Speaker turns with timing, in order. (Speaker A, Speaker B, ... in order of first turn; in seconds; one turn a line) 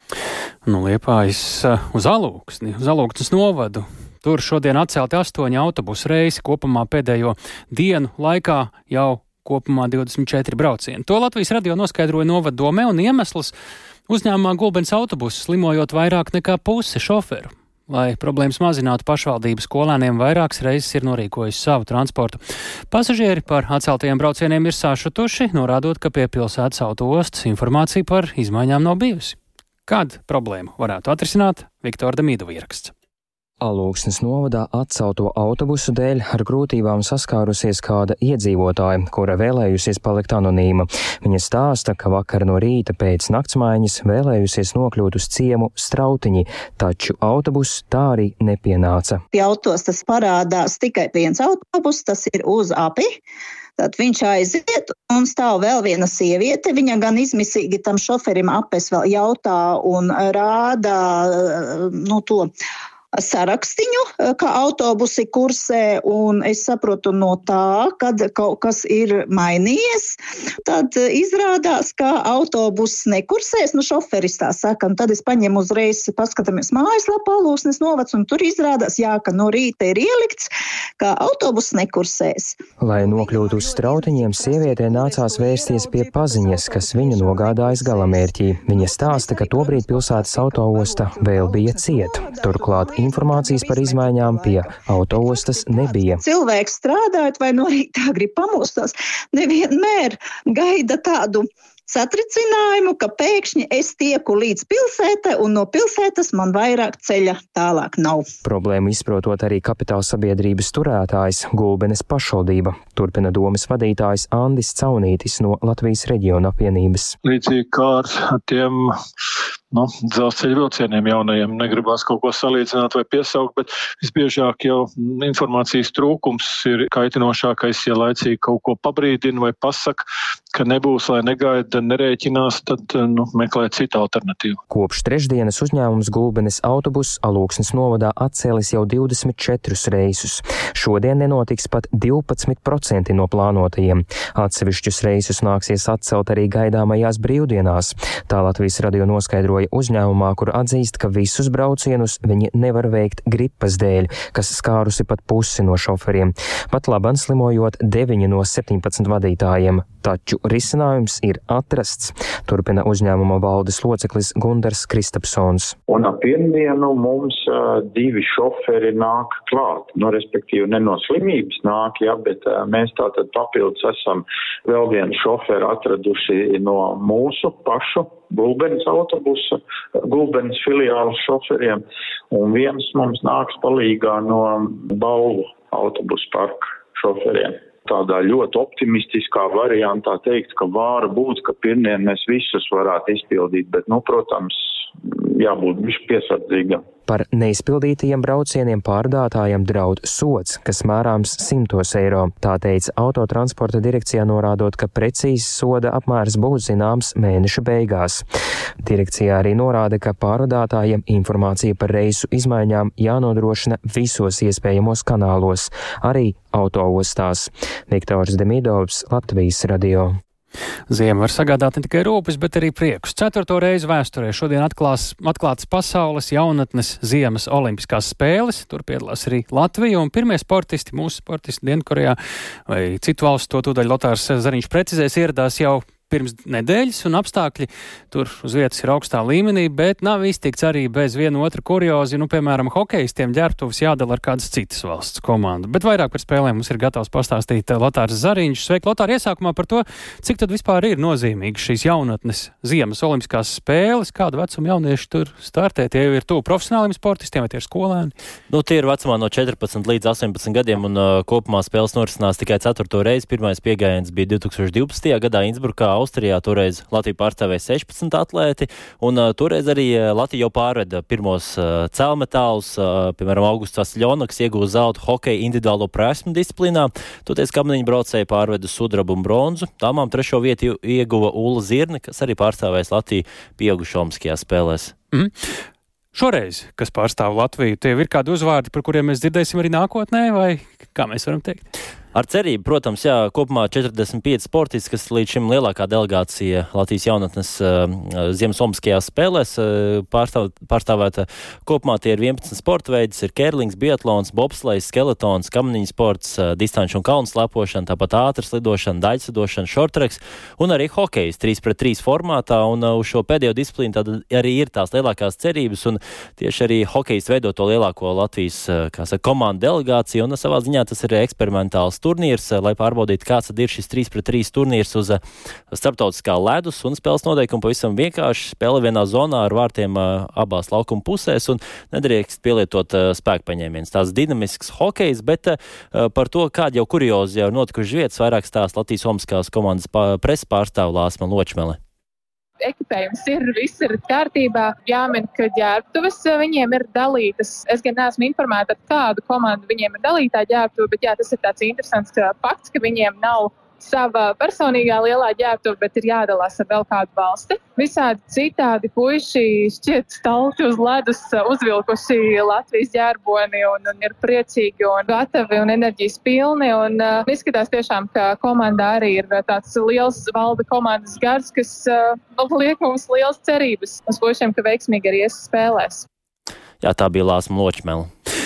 Speaker A: 0.6-13.5
Speaker A: 14.1-22.4
Speaker A: 22.9-32.9
Speaker B: 33.6-49.2
Speaker C: 49.3-53.2
Speaker C: 53.8-62.5
Speaker C: 63.2-82.6
Speaker B: 82.8-96.2
Speaker C: 96.2-108.2
Speaker B: 108.4-117.1
Speaker D: 117.2-118.9
Speaker D: 119.7-130.0
Speaker D: 130.5-134.6
Speaker B: 134.7-165.8
Speaker E: 165.9-194.6
Speaker E: 195.3-196.8
Speaker B: 197.1-208.2
Speaker B: 208.8-220.2
Speaker A: 220.9-258.1
Speaker F: 258.5-284.9
Speaker A: 285.1-285.4
Speaker A: 286.1-291.7
Speaker F: 292.1-325.2
Speaker F: 325.7-341.8
Speaker G: 342.6-376.1
Speaker F: 376.8-378.1